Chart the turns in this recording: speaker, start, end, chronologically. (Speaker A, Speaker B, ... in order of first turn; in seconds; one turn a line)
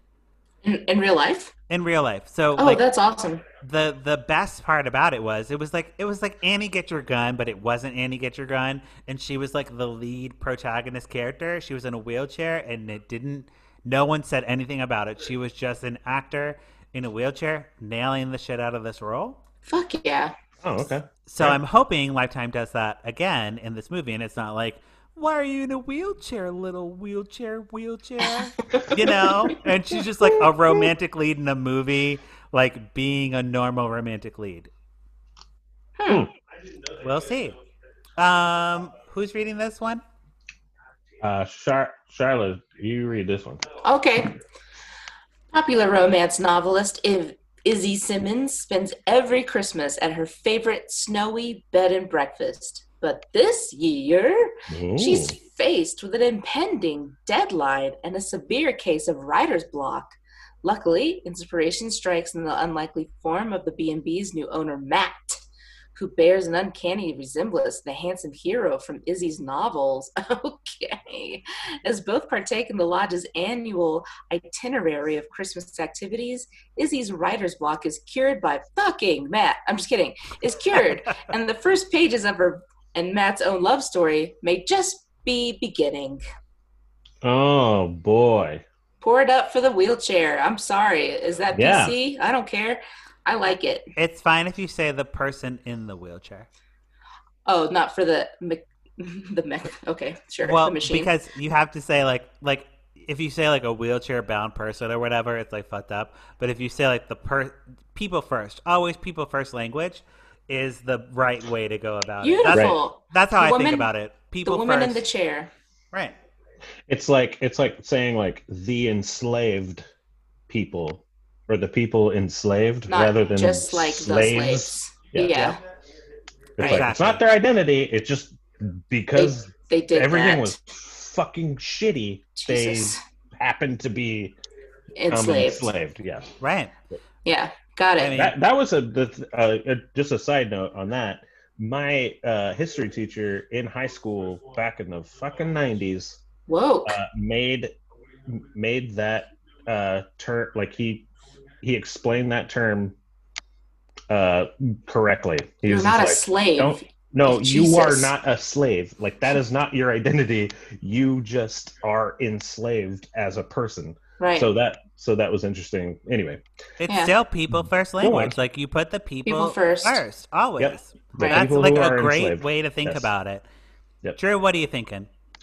Speaker A: 0.6-1.5
Speaker B: 1.7-2.8
Speaker A: 2.6-3.4
Speaker B: 3.6-19.4
Speaker A: 19.7-20.3
Speaker C: 20.6-21.6
Speaker B: 21.3-34.7
Speaker A: 28.2-29.6
Speaker A: 36.0-36.3
Speaker B: 37.0-37.5
Speaker B: 38.2-40.0
Speaker C: 41.2-43.6
Speaker A: 43.8-44.4
Speaker A: 45.5-65.4
Speaker C: 54.7-55.4
Speaker A: 65.9-86.2
Speaker C: 87.2-88.6
Speaker A: 89.0-93.8
Speaker C: 91.5-91.9
Speaker B: 94.0-96.5
Speaker A: 97.5-101.1
Speaker B: 100.4-115.1
Speaker A: 112.2-113.9
Speaker C: 112.5-112.8
Speaker A: 114.4-115.5
Speaker C: 116.9-119.8
Speaker C: 120.5-125.5
Speaker A: 122.9-125.6
Speaker C: 126.6-134.3
Speaker B: 126.6-127.2
Speaker A: 129.1-130.6
Speaker A: 132.3-133.0
Speaker A: 134.9-135.7
Speaker C: 135.1-136.3
Speaker B: 136.4-136.7
Speaker A: 137.2-138.2
Speaker B: 138.0-138.3
Speaker C: 138.1-146.2
Speaker A: 146.5-147.0
Speaker C: 146.8-147.7
Speaker C: 148.3-151.1
Speaker C: 151.6-152.9
Speaker C: 154.1-166.4
Speaker A: 155.7-158.1
Speaker A: 164.2-164.5
Speaker B: 166.8-173.4
Speaker A: 166.9-167.1
Speaker C: 167.5-168.3
Speaker A: 169.2-170.0
Speaker C: 170.6-173.1
Speaker A: 171.2-171.4
Speaker B: 174.2-175.1